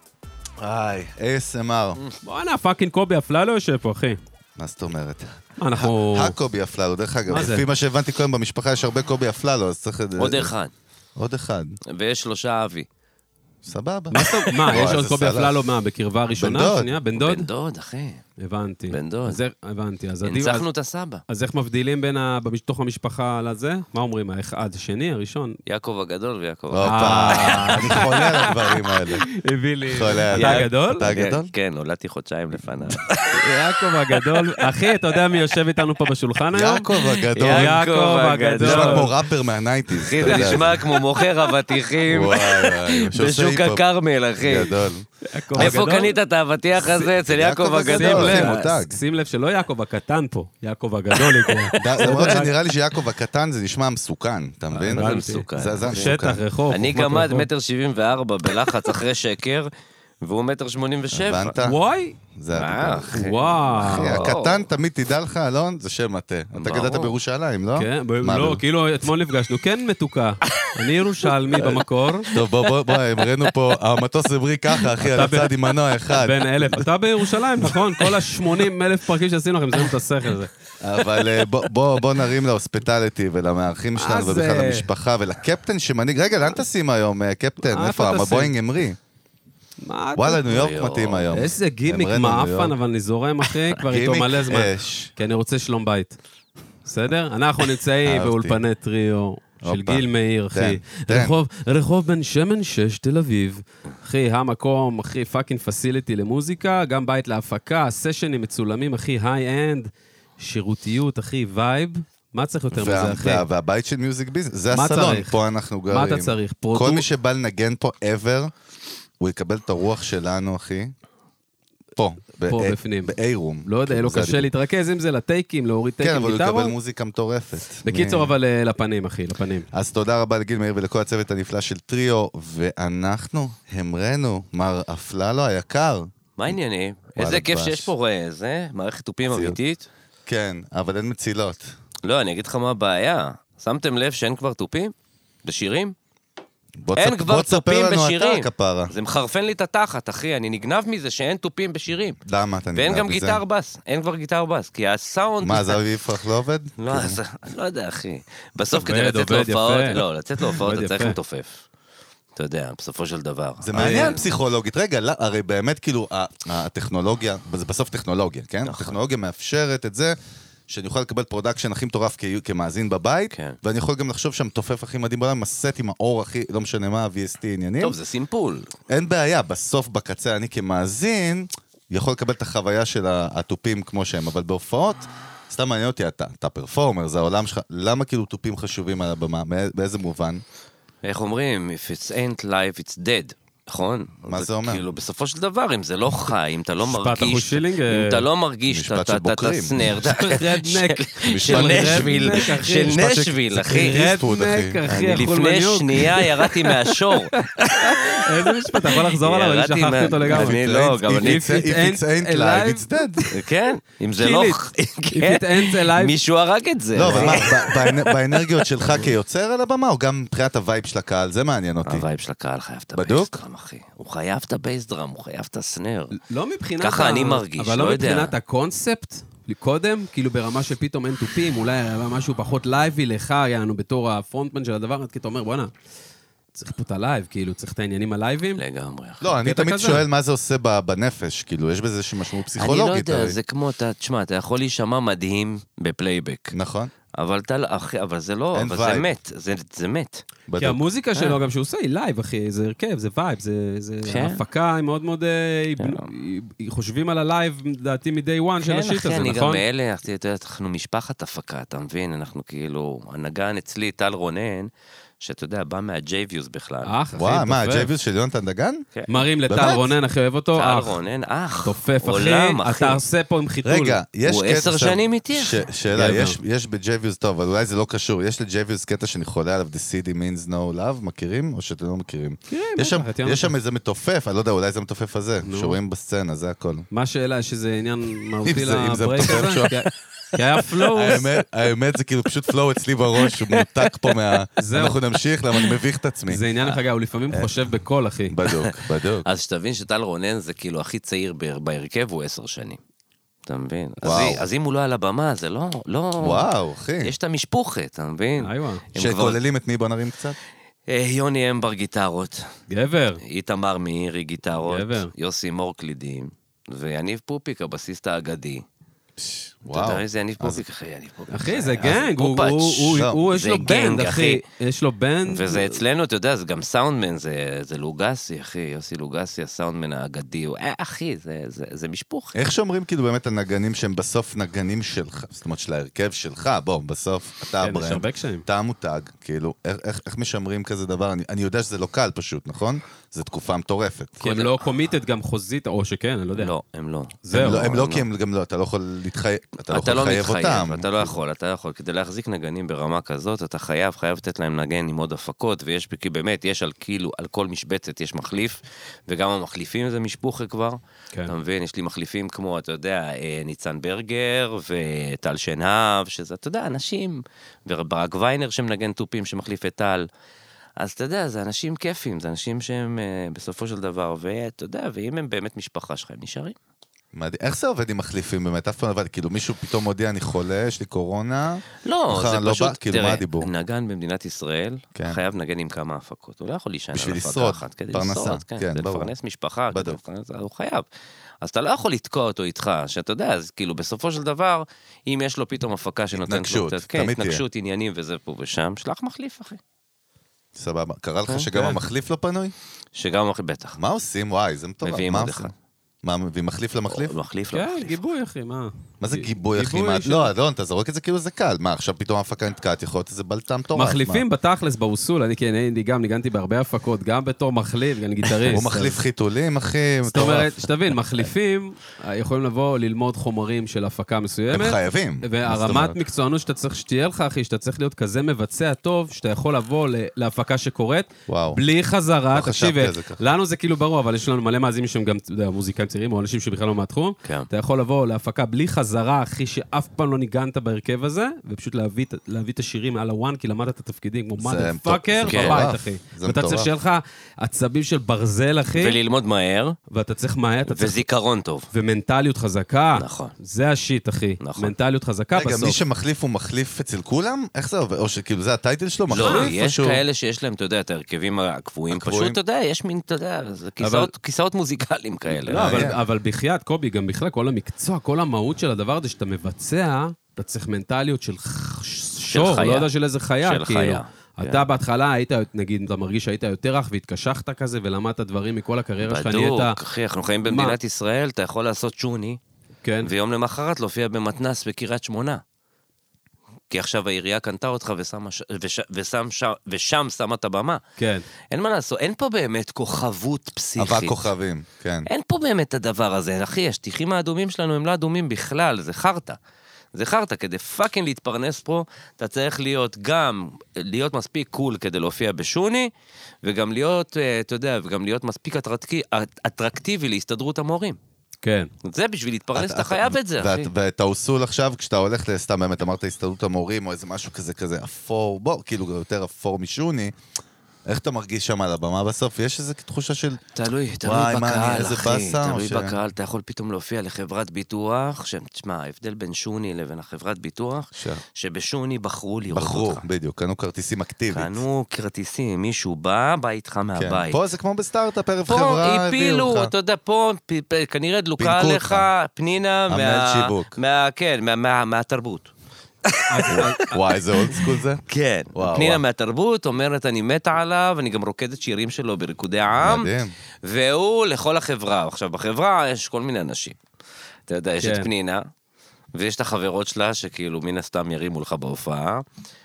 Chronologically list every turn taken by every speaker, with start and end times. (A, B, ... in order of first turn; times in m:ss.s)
0:00.6-0:02.0 A
0:02.2-0:04.2 B
0:04.6-0:10.5 A
0:05.6-0:06.4 B
0:07.3-0:07.6 B
0:10.2-0:10.7 C
0:11.2-0:11.8 A
0:11.9-0:12.9 C
0:13.6-0:15.6 A
0:14.1-0:17.5 B
0:16.4-0:16.9 A
0:17.1-0:18.2 C
0:18.4-0:20.6 B
0:18.9-0:19.4 C
0:20.2-0:21.2 C
0:21.3-0:25.6 B
0:25.6-0:28.2 C
0:26.7-0:29.2 A
0:26.8-0:31.1 B
0:29.9-0:31.5 A
0:30.3-0:35.6 C
0:33.3-0:36.9 B
0:36.5-0:37.8 A
0:37.0-0:39.2 C
0:37.4-0:39.1 B
0:38.6-0:40.9 A
0:40.0-0:44.8 C
0:40.2-0:41.4 B
0:42.0-0:43.8 A
0:44.4-0:45.8 A
0:45.2-0:46.2 B
0:45.5-0:48.6 C
0:47.2-0:49.0 A
0:47.9-0:52.5 B
0:51.5-0:51.9 C
0:51.8-0:56.4 A
0:54.7-0:57.5 B
0:54.8-0:56.2 C
0:56.7-0:59.7 C
1:00.2-1:01.6 C
1:01.1-1:01.8 A
1:01.6-1:02.2 B
1:02.3-1:03.3 A
1:02.5-1:04.7 C
1:03.1-1:04.3 B
1:03.8-1:08.6 A
1:06.5-1:07.1 C
1:07.7-1:12.3 B
1:11.5-1:16.9 A
1:12.3-1:13.3 C
1:15.0-1:15.6 B
1:16.1-1:20.5 B
1:20.8-1:29.0 A
1:24.0-1:24.9 B
1:27.6-1:28.5 B
1:29.8-1:30.4 B
1:30.2-1:32.8 A
1:30.5-1:31.3 C
1:31.3-1:36.2 B
1:33.8-1:35.1 A
1:36.8-1:53.4 B
1:38.0-1:38.6 A
1:39.6-1:41.4 A
1:52.7-1:58.5 A
1:54.7-1:55.4 B
1:55.9-1:57.0 B
1:59.2-2:00.9 A
2:02.0-2:04.5 A
2:02.4-2:06.7 B
2:06.0-2:08.3 A
2:07.8-2:09.7 B
2:09.7-2:16.5 A
2:16.4-2:19.9 C
2:17.2-2:17.9 A
2:19.3-2:19.6 A
2:20.2-2:21.7 A
2:22.0-2:25.9 C
2:26.8-2:28.9 A
2:27.0-2:32.2 C
2:32.2-2:33.4 A
2:32.7-2:35.8 C
2:35.4-2:37.2 A
2:36.8-2:41.6 C
2:38.8-2:41.2 B
2:42.4-2:44.2 C
2:43.6-2:50.1 A
2:43.7-2:44.2 B
2:48.6-2:49.0 C
2:50.7-2:58.0 A
2:53.3-2:53.6 C
2:57.8-2:58.7 C
2:58.9-3:10.4 A
3:11.0-3:24.0 C
3:14.2-3:14.8 A
3:16.8-3:18.2 B
3:18.7-3:19.8 A
3:20.0-3:33.2 B
3:21.3-3:22.5 A
3:23.5-3:24.8 A
3:24.8-3:31.4 C
3:30.2-3:33.3 A
3:33.3-3:39.0 C
3:34.2-3:36.2 B
3:36.9-3:42.0 A
3:37.0-3:37.4 B
3:41.8-3:46.2 C
3:42.9-3:43.4 A
3:46.1-3:55.7 B
3:46.8-3:48.3 C
3:56.5-3:58.6 B
3:58.6-3:59.3 C
3:59.2-4:03.4 A
3:59.4-4:00.0 B
4:02.6-4:06.6 C
4:06.5-4:06.9 A
4:07.1-4:10.2 C
4:08.5-4:09.1 A
4:10.5-4:10.8 A
4:10.6-4:19.6 B
4:11.2-4:11.4 C
4:14.0-4:14.4 C
4:15.8-4:16.1 C
4:18.6-4:24.7 C
4:25.2-4:26.9 C
4:26.8-4:27.9 B
4:27.2-4:28.8 A
4:28.9-4:29.2 C
4:29.1-4:31.0 B
4:29.5-4:29.9 A
4:30.6-4:33.0 C
4:31.6-4:34.0 B
4:33.6-4:46.9 A
4:34.3-4:35.7 C
4:35.9-4:36.4 B
4:42.5-4:43.5 B
4:45.4-4:45.8 B
4:46.9-4:51.3 B
4:48.4-4:49.9 A
4:50.7-4:56.4 A
4:53.2-4:53.9 C
4:54.6-4:55.0 B
4:56.3-4:58.4 B
4:58.3-4:59.2 A
4:58.4-5:02.8 C
5:03.5-5:09.4 C
5:04.0-5:04.4 A
5:06.2-5:07.1 A
5:08.4-5:08.8 B
5:09.0-5:10.4 A
5:10.9-5:12.4 C
5:12.7-5:13.2 B
5:13.2-5:18.6 C
5:14.6-5:15.1 B
5:19.2-5:20.6 A
5:19.7-5:24.4 C
5:21.3-5:25.8 B
5:22.9-5:23.2 A
5:25.2-5:32.4 C
5:32.3-5:44.2 A
5:37.6-5:38.4 B
5:44.2-5:46.5 B
5:44.2-5:44.6 C
5:46.3-5:48.0 C
5:47.2-5:47.7 B
5:47.3-5:51.1 A
5:49.7-6:10.1 C
6:10.8-6:16.6 C
6:17.1-6:23.5 A
6:21.8-6:30.8 C
6:26.9-6:29.1 A
6:29.7-6:30.0 A
6:31.4-6:39.6 C
6:36.1-6:37.4 A
6:40.5-6:42.5 A
6:41.3-6:41.7 C
6:42.9-6:43.8 C
6:43.8-6:45.5 A
6:44.8-6:45.5 C
6:46.0-6:47.1 A
6:46.9-6:48.0 C
6:47.5-6:50.3 B
6:49.0-6:54.2 A
6:53.7-6:59.0 B
6:58.4-7:00.5 A
7:00.1-7:29.0 B
7:04.5-7:06.0 A
7:11.3-7:11.6 A
7:12.3-7:13.2 A
7:24.4-7:26.7 A
7:25.2-7:25.6 C
7:28.7-7:29.8 C
7:29.9-7:31.0 B
7:30.6-7:31.7 C
7:31.7-7:35.8 B
7:32.9-7:33.3 C
7:34.4-7:34.7 C
7:35.3-7:40.0 A
7:39.1-7:45.9 C
7:39.2-7:39.5 B
7:41.9-7:42.4 A
7:43.8-7:44.1 B
7:45.4-7:59.8 B
7:45.5-7:46.0 A
7:52.3-7:52.9 C
7:53.4-7:54.6 C
7:59.0-8:02.4 C
8:00.4-8:00.8 B
8:02.8-8:03.1 B
8:03.0-8:05.4 C
8:06.7-8:10.8 C
8:11.0-8:11.2 B
8:11.5-8:14.2 C
8:13.8-8:15.1 A
8:15.0-8:19.4 C
8:19.9-8:25.9 C
8:26.4-8:31.0 C
8:31.4-8:31.7 B
8:31.8-8:33.7 C
8:32.5-8:40.1 A
8:40.8-8:43.4 A
8:43.5-8:53.0 C
8:44.0-8:46.0 A
8:52.5-8:54.6 A
8:54.3-8:57.4 C
8:56.9-8:59.7 A
8:58.5-9:05.5 C
9:01.4-9:02.1 A
9:02.9-9:03.8 A
9:06.0-9:06.8 C
9:06.3-9:07.0 B
9:06.5-9:08.0 A
9:07.4-9:13.1 C
9:08.5-9:09.0 A
9:12.8-9:13.3 A
9:13.6-9:16.8 C
9:17.5-9:18.4 C
9:17.8-9:18.1 B
9:19.1-9:22.2 C